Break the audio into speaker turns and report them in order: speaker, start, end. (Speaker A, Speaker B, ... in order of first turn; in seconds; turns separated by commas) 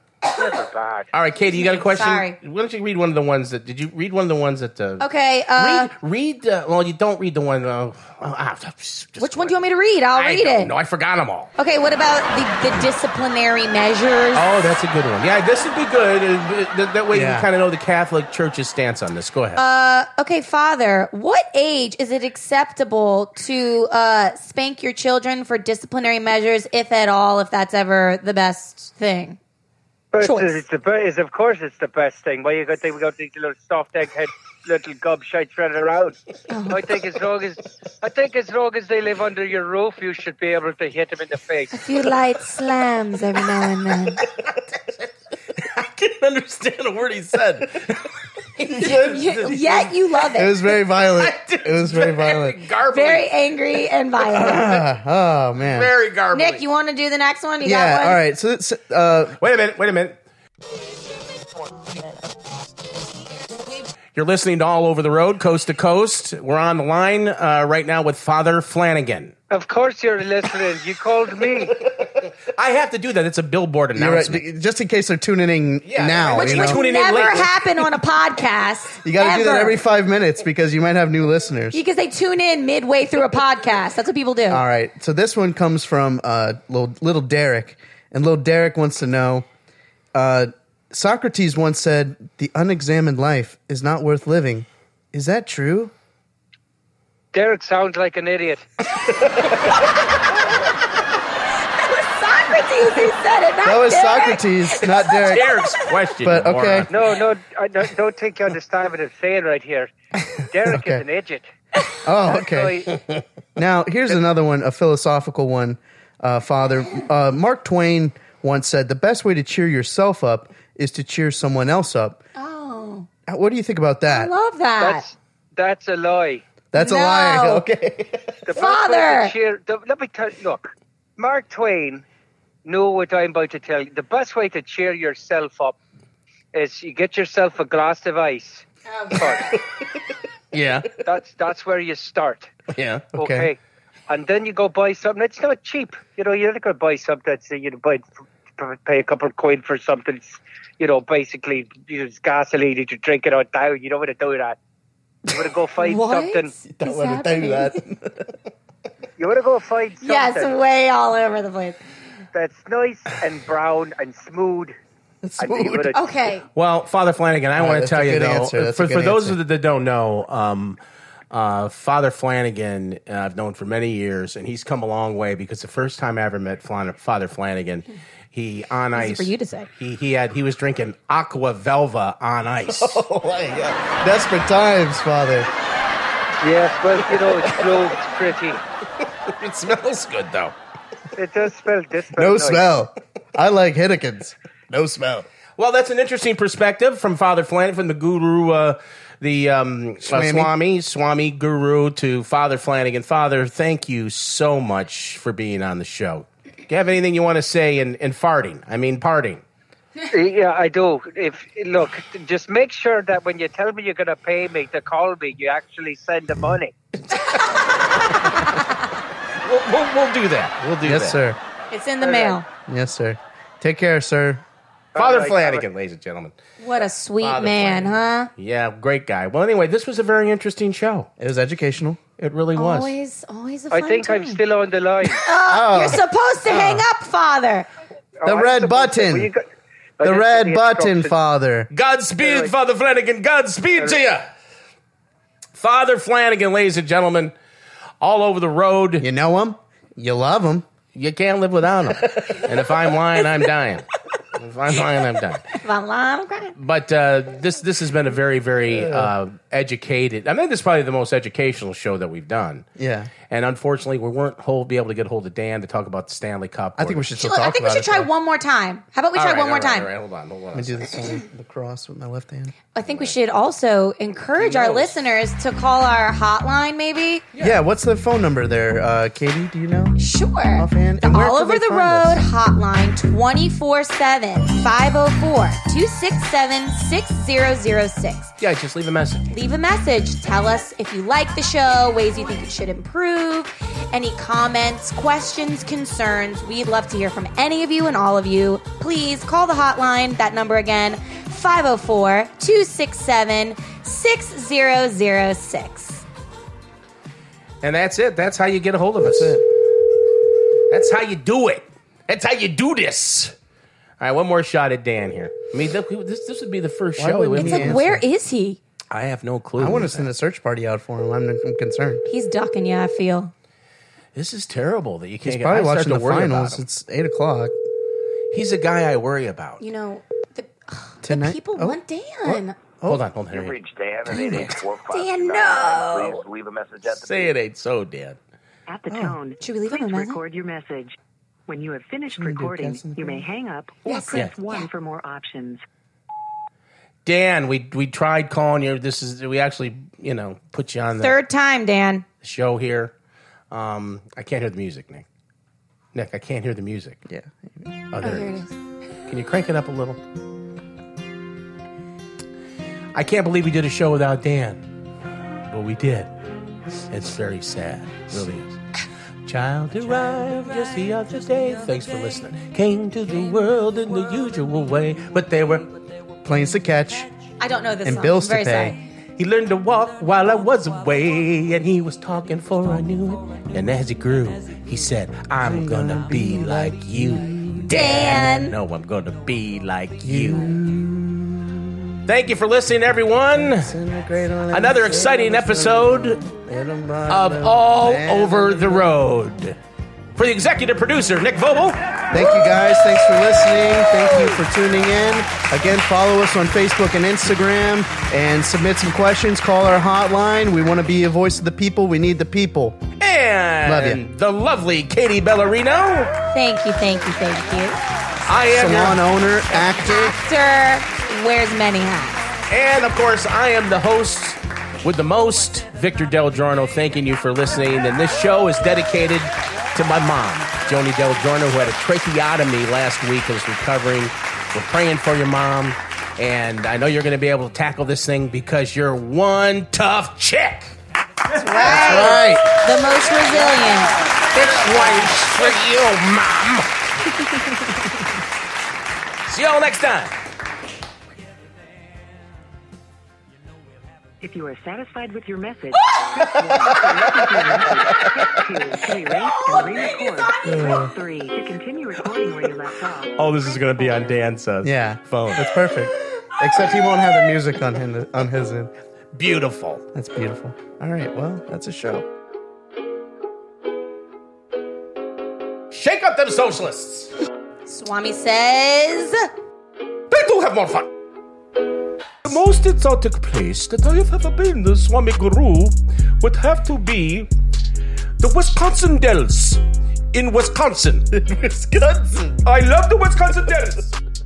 Speaker A: 0.3-1.1, Speaker B: 1.1-9.6, Speaker C: 1.4-2.4, Speaker C: 5.0-5.9, Speaker C: 9.2-10.7, Speaker B: 10.1-11.5, Speaker C: 11.6-14.4, Speaker B: 14.3-19.6, Speaker D: 17.1-17.5, Speaker C: 19.6-29.4, Speaker A: 30.1-36.1, Speaker C: 30.2-30.6, Speaker C: 36.5-36.8, Speaker A: 36.7-41.7, Speaker C: 41.7-44.2, Speaker B: 44.4-44.8, Speaker B: 45.6-48.0, Speaker B: 48.6-49.9, Speaker D: 48.6-49.6, Speaker C: 48.8-50.5, Speaker D: 50.3-52.6, Speaker B: 51.0-53.3, Speaker C: 52.9-54.8, Speaker D: 54.3-55.9, Speaker B: 55.6-56.6, Speaker C: 56.3-58.2, Speaker D: 57.6-59.4, Speaker B: 59.4-60.1, Speaker B: 64.1-69.3, Speaker A: 69.5-71.8, Speaker B: 72.0-74.4, Speaker D: 73.9-76.8, Speaker B: 75.8-77.5, Speaker C: 76.3-79.8, Speaker D: 79.0-81.8, Speaker C: 81.7-84.6, Speaker D: 84.5-89.5, Speaker D: 90.1-95.9, Speaker A: 97.3-98.7, Speaker C: 101.8-105.3, Speaker D: 103.6-105.5, Speaker B: 105.2-107.0, Speaker D: 106.2-106.9, Speaker A: 106.9-111.5, Speaker D: 110.7-111.0, Speaker D: 112.0-112.9, Speaker A: 112.2-113.0, Speaker D: 113.5-122.2, Speaker C: 122.3-123.1, Speaker D: 123.3-124.3, Speaker C: 124.1-125.0, Speaker A: 124.8-126.4, Speaker D: 126.7-128.5, Speaker C: 126.7-127.7, Speaker A: 128.4-132.0, Speaker C: 128.5-129.3, Speaker A: 132.6-135.8, Speaker A: 136.5-139.5, Speaker B: 140.5-140.9, Speaker A: 141.0-142.5, Speaker B: 142.7-143.0, Speaker D: 143.1-143.5, Speaker A: 143.1-148.1, Speaker A: 148.6-154.6, Speaker A: 155.3-156.5, Speaker C: 155.8-157.8, Speaker D: 156.7-158.3, Speaker A: 159.2-160.5, Speaker C: 160.0-161.8, Speaker A: 162.3-164.7, Speaker D: 165.2-165.9, Speaker A: 165.4-166.0, Speaker C: 165.9-166.5, Speaker B: 166.5-170.8, Speaker D: 167.6-169.4, Speaker B: 171.3-183.0, Speaker C: 178.9-179.7, Speaker D: 182.7-185.5, Speaker A: 186.4-188.6, Speaker B: 189.3-190.5, Speaker A: 191.2-192.7, Speaker D: 192.1-195.3, Speaker B: 195.6-209.4, Speaker D: 200.1-200.5, Speaker A: 210.1-216.7, Speaker B: 219.4-221.2, Speaker D: 220.8-221.4, Speaker C: 221.7-222.4, Speaker A: 222.0-222.4, Speaker D: 222.7-224.4, Speaker A: 224.9-225.7, Speaker B: 224.9-226.3, Speaker C: 226.6-228.3, Speaker B: 227.2-231.1, Speaker D: 231.2-232.0, Speaker B: 232.2-232.9, Speaker C: 232.6-234.4, Speaker A: 233.7-235.2, Speaker C: 235.1-237.7, Speaker D: 235.5-236.8, Speaker A: 238.2-239.4, Speaker D: 238.2-239.3, Speaker A: 240.0-241.1, Speaker D: 240.0-241.7, Speaker B: 241.7-244.3, Speaker A: 242.2-242.5, Speaker B: 245.6-247.3, Speaker B: 248.0-249.1, Speaker D: 249.0-250.6, Speaker B: 250.9-255.5, Speaker C: 255.6-256.6, Speaker B: 256.6-262.6, Speaker D: 258.7-259.1, Speaker D: 262.8-263.1, Speaker B: 263.3-267.0, Speaker D: 266.8-268.1, Speaker C: 267.2-269.9, Speaker B: 269.1-271.0, Speaker D: 270.5-272.5, Speaker C: 272.7-277.2, Speaker B: 272.8-273.1, Speaker B: 274.3-275.0, Speaker B: 277.3-277.6, Speaker D: 277.4-280.0, Speaker C: 280.0-288.3, Speaker D: 280.5-282.2, Speaker B: 288.4-289.3, Speaker C: 289.3-306.0, Speaker B: 307.6-309.4, Speaker D: 309.0-309.4, Speaker B: 310.7-313.3, Speaker B: 314.0-317.8, Speaker D: 317.0-318.0, Speaker C: 317.4-318.6, Speaker B: 318.9-320.1, Speaker D: 319.6-322.0, Speaker C: 322.1-323.3, Speaker B: 324.1-326.6, Speaker D: 325.2-327.6, Speaker B: 328.3-329.6, Speaker C: 329.6-332.6, Speaker D: 331.0-333.0, Speaker B: 332.9-334.5, Speaker E: 333.3-337.3, Speaker D: 334.1-334.5, Speaker C: 334.2-336.2, Speaker B: 336.9-338.2, Speaker F: 338.7-345.6, Speaker D: 338.9-339.2, Speaker C: 339.4-340.2, Speaker D: 342.1-343.3, Speaker C: 343.9-344.7, Speaker B: 347.1-351.1, Speaker C: 351.0-352.1, Speaker B: 352.2-352.9, Speaker B: 353.5-355.0, Speaker B: 355.9-357.0, Speaker D: 357.1-357.6, Speaker B: 357.9-358.4, Speaker C: 358.0-358.5, Speaker B: 359.1-360.0, Speaker B: 362.9-364.7, Speaker B: 365.5-366.1, Speaker B: 366.9-368.6, Speaker B: 369.2-375.7, Speaker D: 376.2-377.1, Speaker C: 377.4-378.8, Speaker D: 377.8-378.8, Speaker B: 379.2-390.5, Speaker D: 385.4-388.3, Speaker C: 387.7-388.5, Speaker D: 390.0-391.9, Speaker B: 392.1-393.7, Speaker D: 393.4-395.9, Speaker B: 394.5-396.2, Speaker D: 396.4-398.9, Speaker B: 397.1-399.6, Speaker B: 400.2-401.8, Speaker D: 402.1-412.8, Speaker B: 413.0-416.1, Speaker D: 413.6-414.0, Speaker C: 416.3-417.8, Speaker B: 418.3-419.0, Speaker D: 418.5-420.1, Speaker C: 419.8-422.2, Speaker B: 422.5-440.7, Speaker C: 441.3-443.9, Speaker D: 441.6-442.4, Speaker B: 441.8-442.1, Speaker B: 444.3-446.8, Speaker B: 449.3-450.1, Speaker F: 454.2-463.2, Speaker D: 456.5-457.0, Speaker C: 459.4-460.6, Speaker D: 460.4-460.9, Speaker B: 463.2-465.5, Speaker F: 463.8-464.1, Speaker D: 464.6-468.7, Speaker B: 469.1-469.8, Speaker D: 469.9-472.1, Speaker B: 475.7-477.1, Speaker C: 477.6-479.3, Speaker B: 480.1-480.9, Speaker B: 482.2-487.3, Speaker G: 483.8-484.6, Speaker G: 486.3-486.6, Speaker B: 488.2-489.6, Speaker B: 490.1-491.1, Speaker D: 491.1-492.5, Speaker G: 492.4-493.9